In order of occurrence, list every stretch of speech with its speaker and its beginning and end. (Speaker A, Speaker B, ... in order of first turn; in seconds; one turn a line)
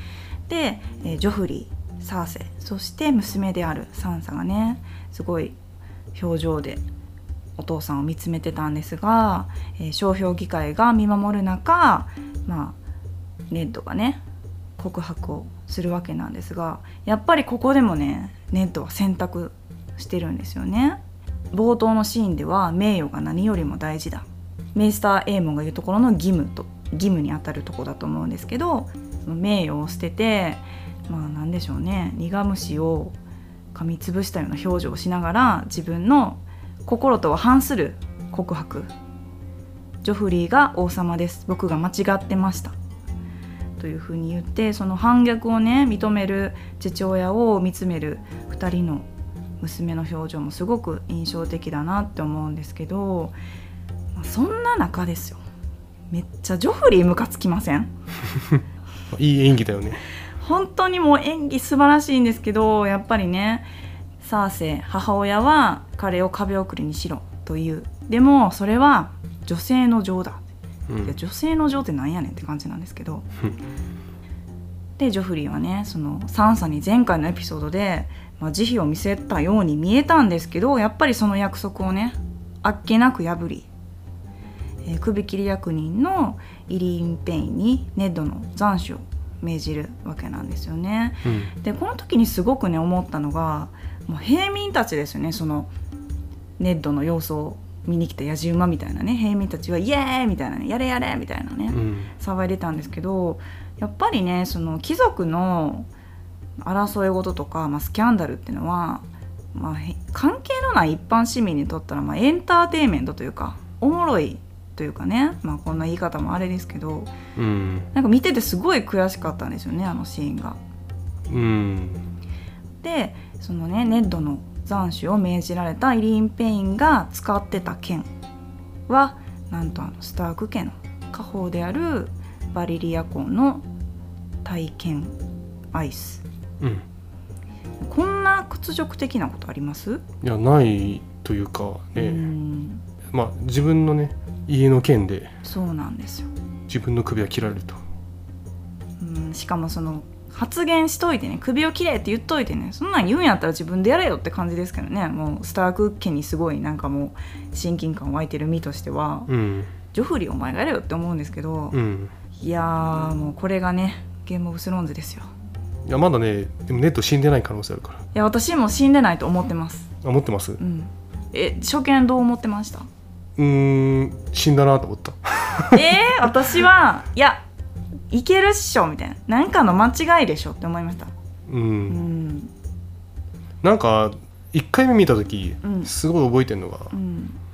Speaker A: 0.5-5.6
Speaker A: 6.1-6.8
Speaker A: 7.6-12.8
Speaker A: 13.5-14.2
Speaker A: 14.8-21.0
Speaker A: 21.5-33.1
Speaker A: 33.7-38.9
Speaker A: 40.0-42.7
Speaker A: 43.8-49.1
Speaker A: 49.6-53.4
Speaker A: 54.1-55.4
Speaker A: 56.1-57.9
Speaker B: 59.1-60.0
Speaker A: 60.4-63.7
Speaker A: 64.2-70.4
Speaker B: 70.9-71.1
Speaker A: 71.0-73.2
Speaker A: 75.0-83.7
Speaker A: 84.8-95.7
Speaker B: 91.2-91.5
Speaker A: 96.6-105.9
Speaker B: 101.7-102.1
Speaker A: 106.6-117.1
Speaker B: 117.3-117.9
Speaker A: 117.9-120.6
Speaker B: 121.3-122.0
Speaker A: 122.8-128.1
Speaker A: 128.9-133.6
Speaker A: 134.4-135.1
Speaker A: 135.7-136.2
Speaker B: 136.6-136.8
Speaker A: 137.8-140.0
Speaker B: 140.2-142.3
Speaker A: 141.9-142.8
Speaker B: 143.1-145.3
Speaker A: 145.4-146.3
Speaker B: 146.7-147.8
Speaker A: 149.0-159.3
Speaker B: 159.3-159.7
Speaker A: 159.9-161.8
Speaker B: 161.7-162.1
Speaker A: 162.3-165.3
Speaker B: 165.8-168.0
Speaker A: 168.1-169.9
Speaker B: 170.0-170.6
Speaker A: 170.6-172.9
Speaker B: 173.4-176.3
Speaker A: 175.7-177.4
Speaker A: 178.1-181.1
Speaker B: 181.5-182.0
Speaker A: 181.9-182.5
Speaker B: 183.6-186.9
Speaker A: 185.6-185.9
Speaker A: 186.9-187.4